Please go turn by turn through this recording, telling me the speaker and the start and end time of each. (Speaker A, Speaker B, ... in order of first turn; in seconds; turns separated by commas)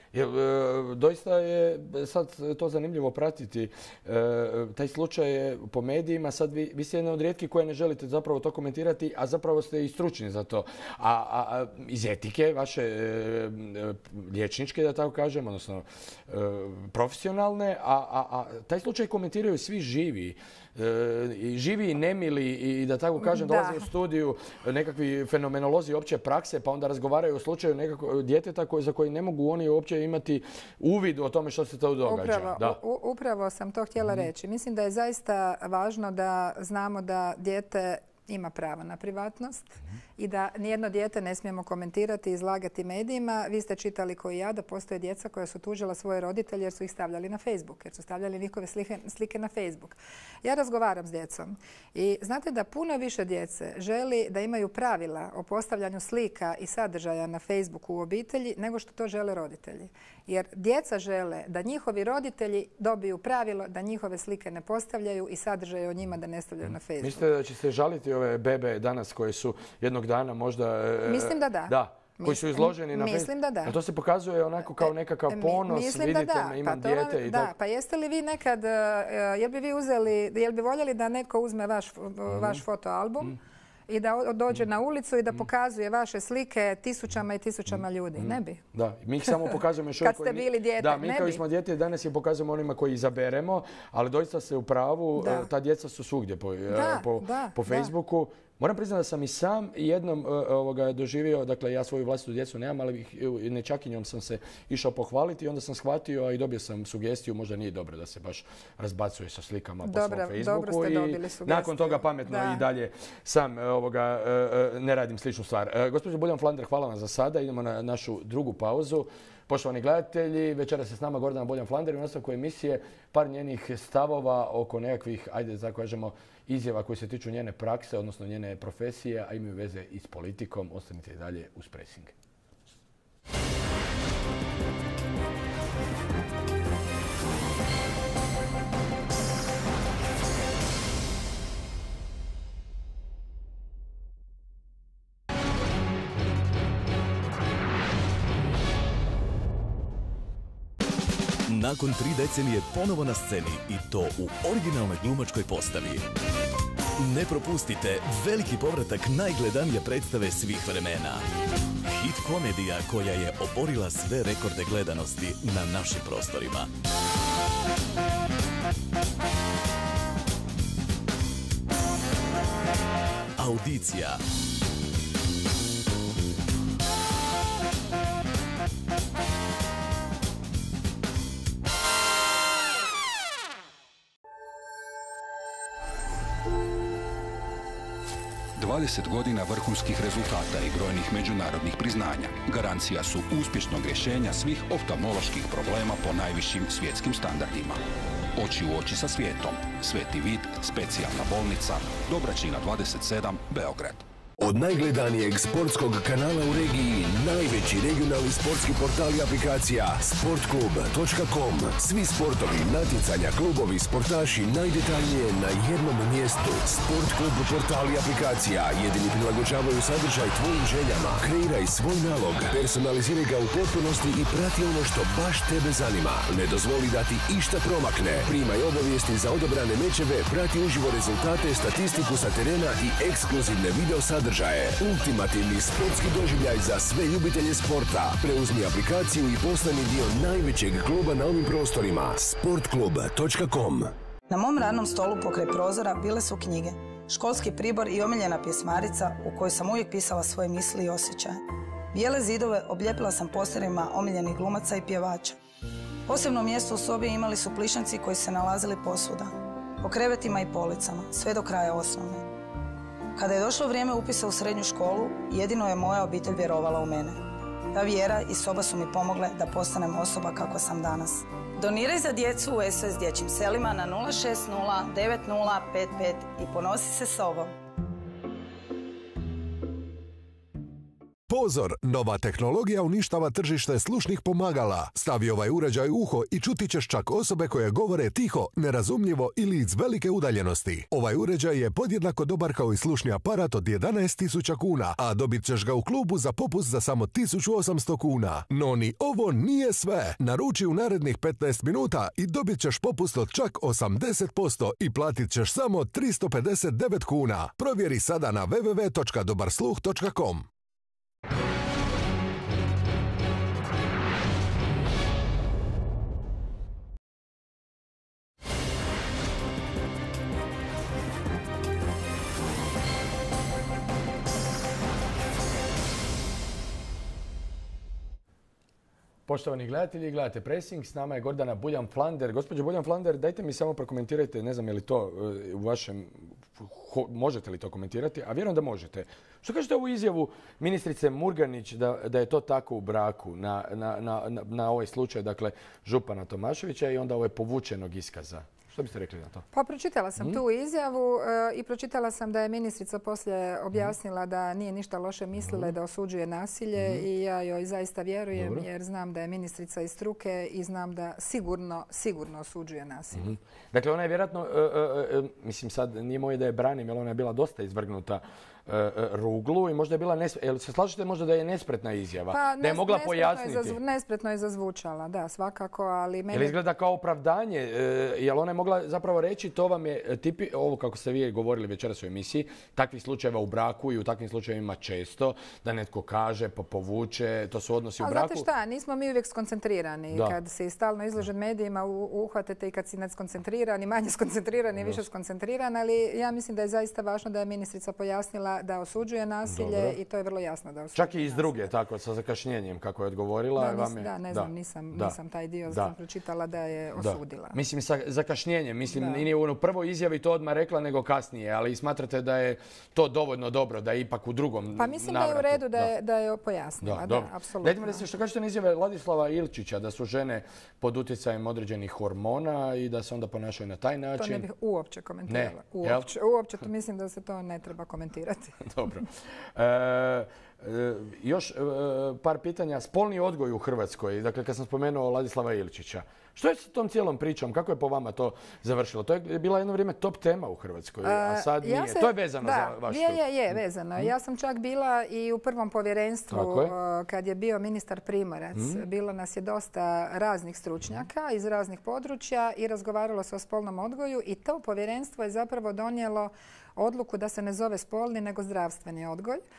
Speaker A: 0.1-32.8, Speaker B: 23.2-23.9, Speaker B: 32.0-67.2, Speaker A: 67.0-77.5, Speaker B: 71.0-73.8, Speaker B: 74.8-88.6, Speaker A: 82.3-82.6, Speaker A: 88.2-132.1, Speaker B: 89.2-91.4, Speaker B: 95.2-95.5, Speaker B: 96.7-97.9, Speaker B: 109.8-112.6, Speaker C: 151.5-156.0, Speaker C: 157.0-161.2, Speaker C: 161.9-166.7, Speaker C: 173.4-174.2, Speaker D: 188.6-197.8, Speaker D: 198.3-204.0, Speaker E: 204.4-243.9, Speaker F: 244.3-251.4, Speaker F: 251.9-255.4, Speaker F: 256.1-262.3, Speaker F: 263.1-277.5, Speaker G: 281.3-310.5, Speaker A: 329.3-349.4, Speaker B: 349.5-363.4, Speaker A: 356.8-357.0, Speaker A: 358.3-358.6, Speaker A: 363.2-373.8, Speaker B: 372.3-376.6, Speaker A: 376.3-388.4, Speaker B: 388.0-401.7, Speaker A: 390.1-390.4, Speaker A: 394.8-395.0, Speaker A: 399.4-400.0, Speaker A: 400.9-405.2, Speaker B: 403.6-407.6, Speaker A: 405.7-405.9, Speaker A: 407.0-415.9, Speaker B: 408.9-409.2, Speaker B: 414.8-418.0, Speaker A: 416.8-424.4, Speaker B: 424.2-428.7, Speaker A: 425.3-426.1, Speaker A: 428.6-443.2, Speaker B: 441.0-459.4, Speaker A: 446.3-446.7, Speaker A: 448.5-448.8